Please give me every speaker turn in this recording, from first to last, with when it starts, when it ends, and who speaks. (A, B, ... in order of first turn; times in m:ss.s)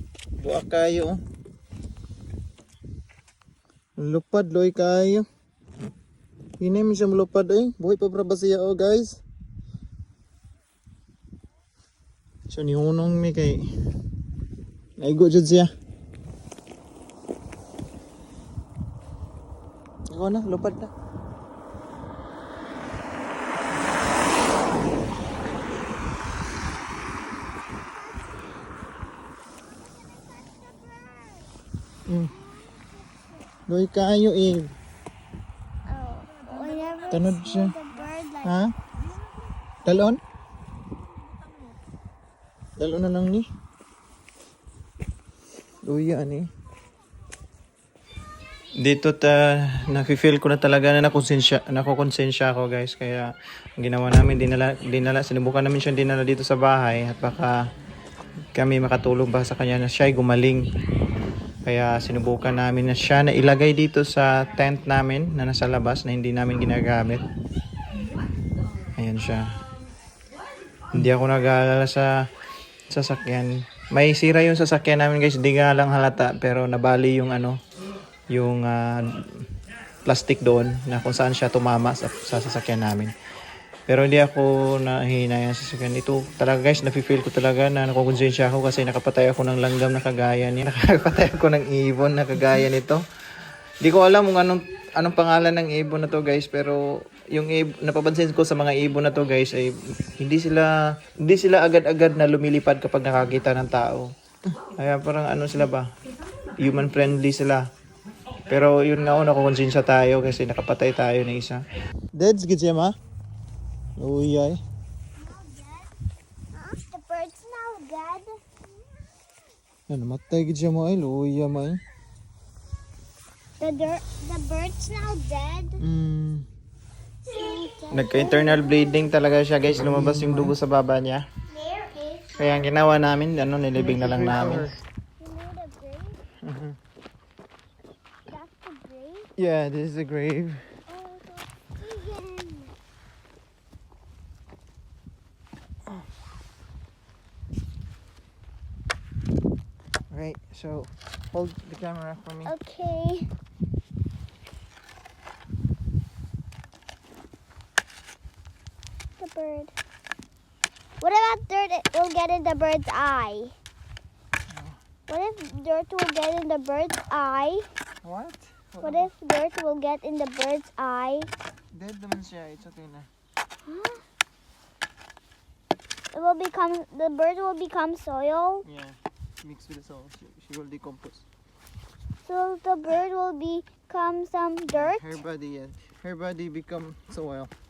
0:00.4-0:01.2 A
0:04.0-0:05.2 A
0:06.6-0:09.2 A
0:12.5-0:13.6 A
0:15.0-0:15.7 A
0:20.1-0:20.9 A
0:29.8-0:31.5 B
0:32.0-0:32.3 A
0:32.3-0:33.4 B
0:33.7-0:34.7 A
0:35.8-0:38.6 B
0:37.1-0:37.7 A
0:38.4-0:38.7 A
0:39.8-0:40.2 A
0:42.8-0:43.4 A
0:45.8-0:46.5 A
0:48.8-0:57.6 A
0:58.5-1:00.7 A
1:01.6-1:07.2 A
1:09.0-1:09.6 A
1:10.9-1:12.2 A
1:12.9-1:17.6 A
1:18.3-1:19.4 A
1:20.0-1:23.1 A
1:23.9-1:33.0 A
1:33.8-1:44.1 A
1:44.8-1:45.9 A
1:46.6-1:47.6 A
1:48.5-1:51.6 A
1:52.1-1:52.9 A
1:54.0-1:54.6 A
1:55.2-1:55.9 B
1:56.5-1:58.4 B
1:59.9-2:01.8 A
2:03.6-2:05.8 B
2:05.8-2:06.4 A
2:07.2-2:09.1 B
2:07.9-2:11.2 A
2:11.5-2:12.4 B
2:12.4-2:14.7 A
2:15.2-2:16.2 B
2:16.4-2:16.8 A
2:18.3-2:19.3 B
2:19.4-2:20.6 A
2:20.9-2:22.7 B
2:30.1-2:32.5 A
2:32.4-2:33.3 B
2:39.2-2:39.7 B
2:41.0-2:43.5 B
2:44.5-2:44.8 A
2:45.1-2:47.7 B
2:48.0-2:49.1 A
2:48.8-2:51.3 B
2:51.7-2:53.1 A
2:53.6-2:54.0 B
2:56.1-2:58.7 B
2:58.6-3:01.2 A
3:02.2-3:05.2 B
3:04.7-3:07.5 A